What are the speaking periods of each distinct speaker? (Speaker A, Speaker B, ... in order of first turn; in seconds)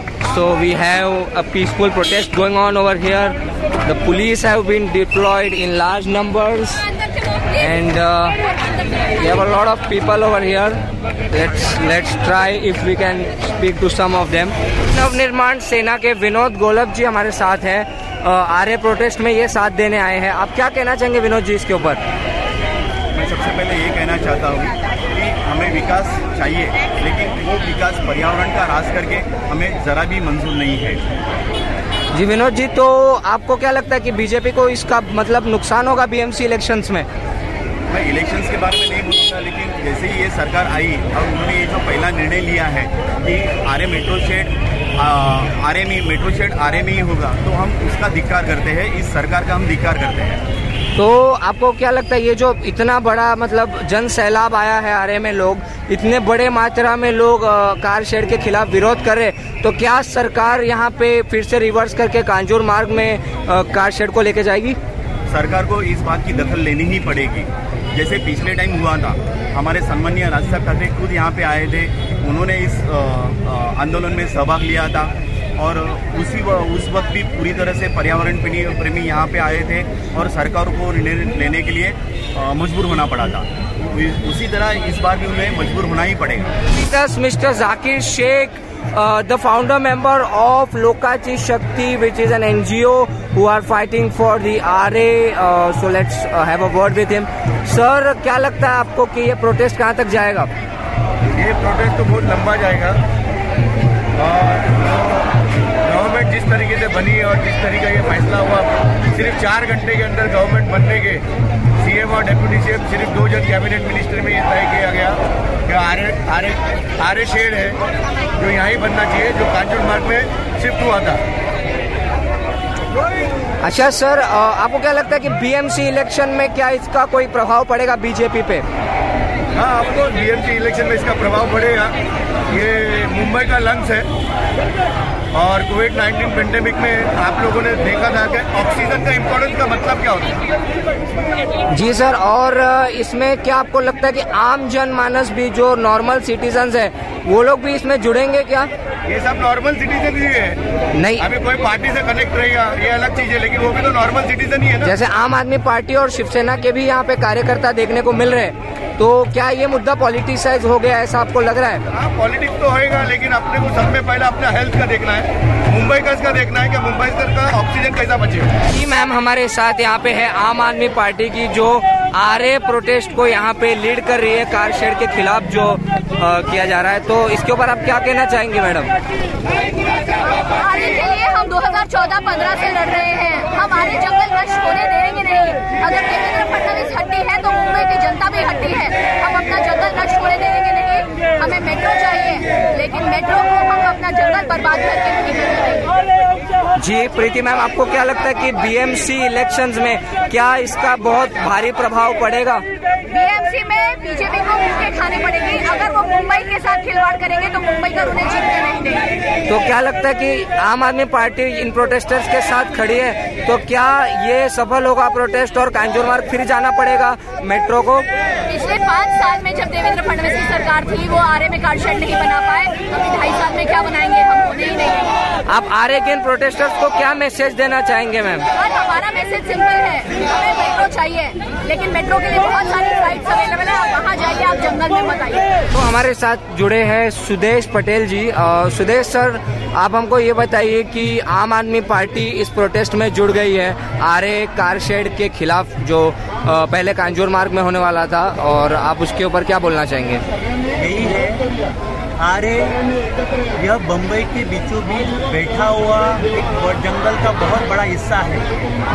Speaker A: 0.2-6.9, 7.5-8.4, 9.1-22.0, 32.1-37.0, 50.9-64.8, 86.7-100.5, 123.6-128.6, 141.7-148.7, 150.9-151.2, 154.8-161.8, 168.7-178.9, 196.8-202.6, 209.4-218.1, 225.4-228.4, 235.7-250.2
Speaker B: 23.1-31.0, 37.9-50.4, 65.3-86.5
Speaker C: 101.3-103.0, 104.2-105.3, 105.8-111.2, 111.8-117.8, 118.3-121.2, 129.6-131.9, 132.5-134.1, 135.3-140.4, 149.1-150.6, 151.2-154.9, 161.9-168.6
Speaker D: 180.2-196.1, 203.1-209.1, 218.5-225.2, 228.6-235.5
Speaker E: 250.8-251.4, 252.2-252.8, 253.6-258.5